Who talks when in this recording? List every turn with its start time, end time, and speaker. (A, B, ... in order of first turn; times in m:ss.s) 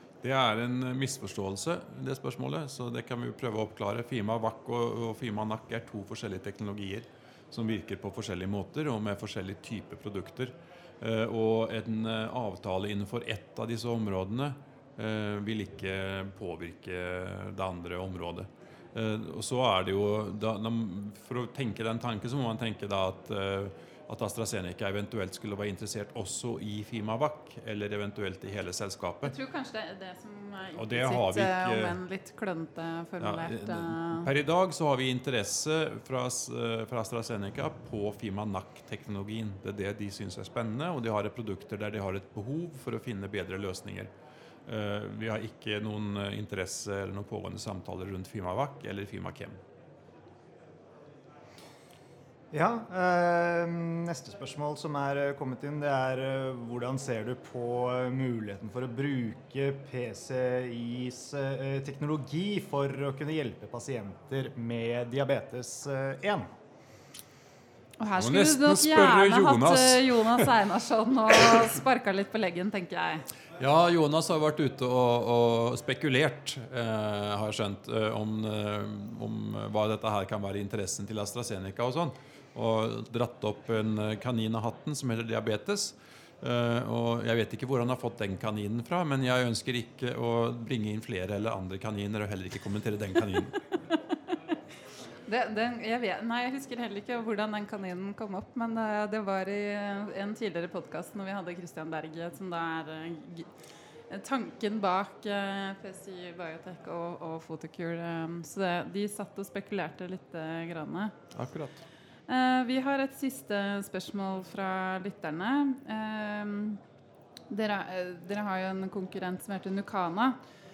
0:00.2-0:29.3 A
0:29.2-0:34.3 B
0:30.7-0:32.0 A
0:33.2-0:44.1 A
0:44.7-0:49.6 A
0:52.5-1:06.5 C
1:08.0-1:13.2 B
1:08.2-1:10.5 A
1:13.6-1:33.6 A
1:35.3-1:43.5 B
1:44.1-1:51.1 B
1:51.3-1:51.8 A
1:52.3-1:56.8 B
1:57.5-2:00.4 B